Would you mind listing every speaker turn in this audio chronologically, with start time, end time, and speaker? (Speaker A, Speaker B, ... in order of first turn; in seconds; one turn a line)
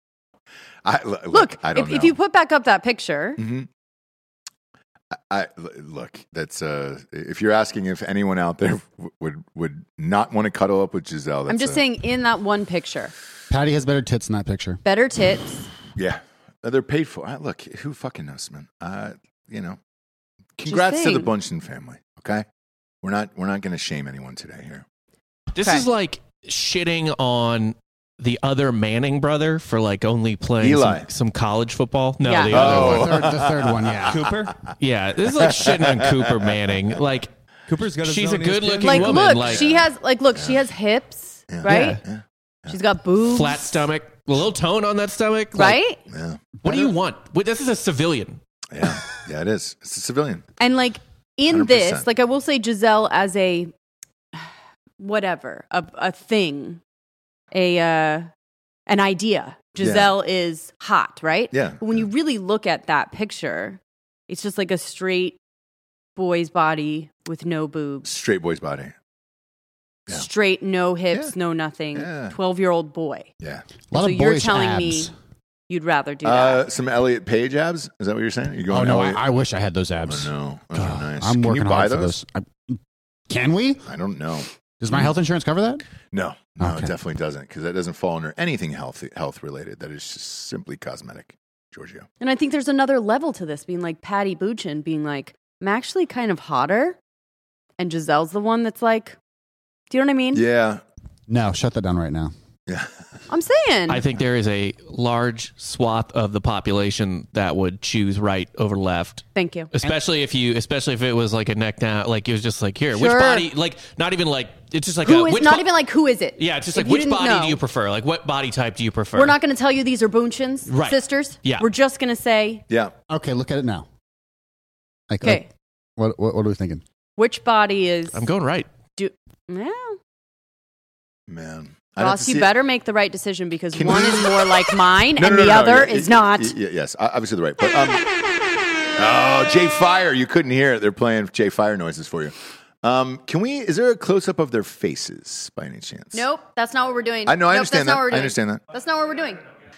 Speaker A: 0.8-2.1
Speaker B: 1.3-3.4
Speaker A: 3.4-3.7
Speaker A: 5.3-11.8
Speaker B: 11.5-13.1
Speaker C: 13.5-14.8
Speaker B: 14.8-15.7
Speaker A: 15.9-19.8
Speaker A: 20.6-22.4
Speaker B: 20.7-21.3
Speaker A: 23.0-24.8
Speaker D: 25.5-33.1
Speaker A: 30.6-31.1
Speaker B: 32.2-32.7
Speaker C: 32.5-34.3
Speaker A: 32.5-34.1
Speaker E: 34.1-34.5
Speaker D: 34.8-37.3
Speaker A: 35.4-36.5
Speaker E: 37.7-39.4
Speaker D: 38.0-39.7
Speaker B: 38.8-42.0
Speaker A: 39.4-40.6
Speaker A: 41.5-42.8
Speaker D: 41.6-42.0
Speaker B: 42.7-43.8
Speaker D: 43.2-45.8
Speaker B: 45.5-46.0
Speaker A: 46.1-46.4
Speaker D: 46.6-48.4
Speaker A: 48.7-50.4
Speaker B: 50.6-53.7
Speaker A: 51.5-52.0
Speaker B: 55.0-56.8
Speaker B: 57.5-58.3
Speaker B: 58.9-65.4
Speaker A: 59.8-60.1
Speaker A: 61.5-62.1
Speaker B: 66.2-68.1
Speaker A: 68.0-68.9
Speaker B: 70.1-73.3
Speaker A: 71.9-72.3
Speaker A: 73.4-73.7
Speaker C: 73.9-75.1
Speaker B: 73.9-75.1
Speaker B: 75.7-76.6
Speaker A: 76.2-79.2
Speaker C: 78.7-83.8
Speaker A: 80.1-82.1
Speaker A: 83.8-85.1
Speaker C: 84.8-85.8
Speaker A: 86.1-92.0
Speaker C: 86.6-86.9
Speaker B: 92.2-97.0
Speaker B: 97.8-99.2
Speaker B: 99.9-100.4
Speaker A: 100.3-100.8
Speaker C: 101.3-102.3
Speaker A: 102.7-102.9
Speaker B: 103.3-104.0
Speaker D: 103.9-115.7
Speaker B: 109.3-109.7
Speaker B: 112.9-113.5
Speaker B: 115.0-117.6
Speaker D: 116.3-119.4
Speaker B: 119.1-122.6
Speaker D: 120.7-121.7
Speaker A: 122.7-122.9
Speaker C: 123.1-123.8
Speaker C: 125.1-125.4
Speaker B: 125.2-125.5
Speaker C: 126.0-126.8
Speaker B: 127.2-128.2
Speaker D: 128.1-128.7
Speaker B: 128.9-130.0
Speaker A: 131.3-132.5
Speaker B: 132.0-136.5
Speaker A: 133.7-134.5
Speaker A: 135.2-138.0
Speaker A: 138.9-146.2
Speaker B: 146.1-149.4
Speaker A: 147.2-148.6